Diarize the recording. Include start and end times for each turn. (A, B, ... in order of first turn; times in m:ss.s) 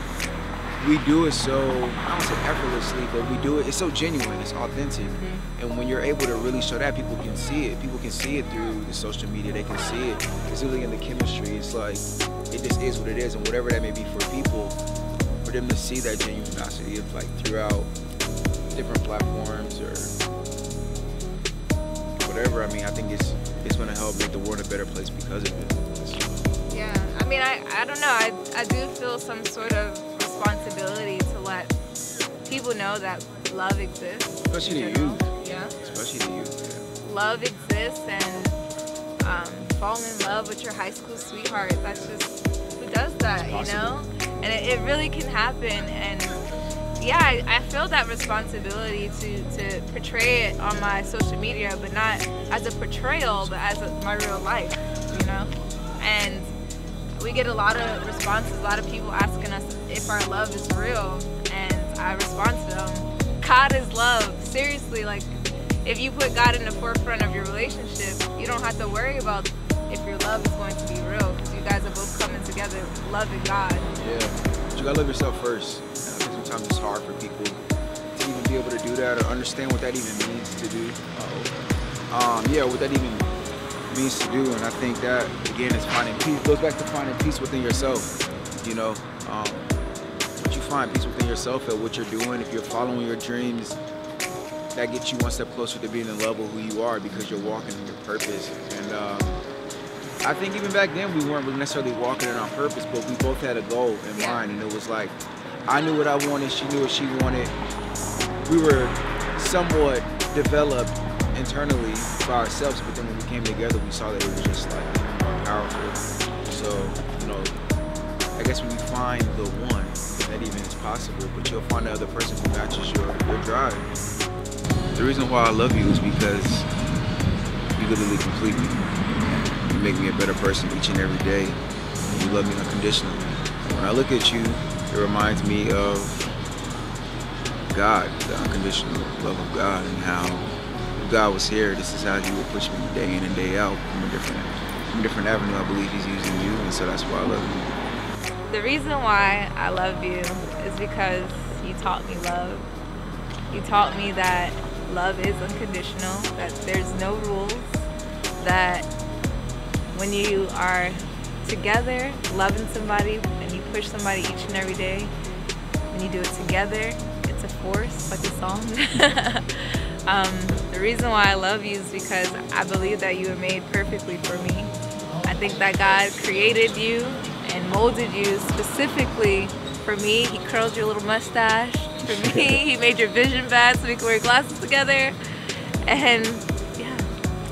0:00.8-0:14.8 A
0:05.2-0:05.4 B
0:15.4-0:17.9 A
0:18.7-0:20.2 A
0:22.2-0:26.5 A
0:26.7-0:31.7 B
0:32.5-0:35.8 B
0:34.5-0:35.3 A
0:35.8-0:36.8 A
0:37.0-0:38.6 B
0:39.2-0:46.4 B
0:43.4-0:44.0 A
0:47.0-0:56.5 B
0:57.2-1:13.9 B
1:14.0-1:17.6 A
1:18.2-1:21.6 A
1:22.1-1:23.3 A
1:23.9-1:29.7 A
1:30.4-1:33.8 A
1:34.8-1:39.4 A
1:40.2-1:45.2 A
1:44.1-1:44.4 B
1:45.7-1:47.5 A
1:48.5-1:57.6 A
1:58.4-2:03.9 A
2:05.0-2:06.7 A
2:07.8-2:08.8 A
2:09.7-2:16.3 A
2:17.7-2:27.7 A
2:28.5-2:32.7 B
2:33.5-2:37.9 B
2:38.4-2:38.9 B
2:39.9-2:45.1 B
2:45.9-2:54.7 B
2:55.2-3:05.2 B
3:02.1-3:02.6 A
3:05.9-3:07.1 B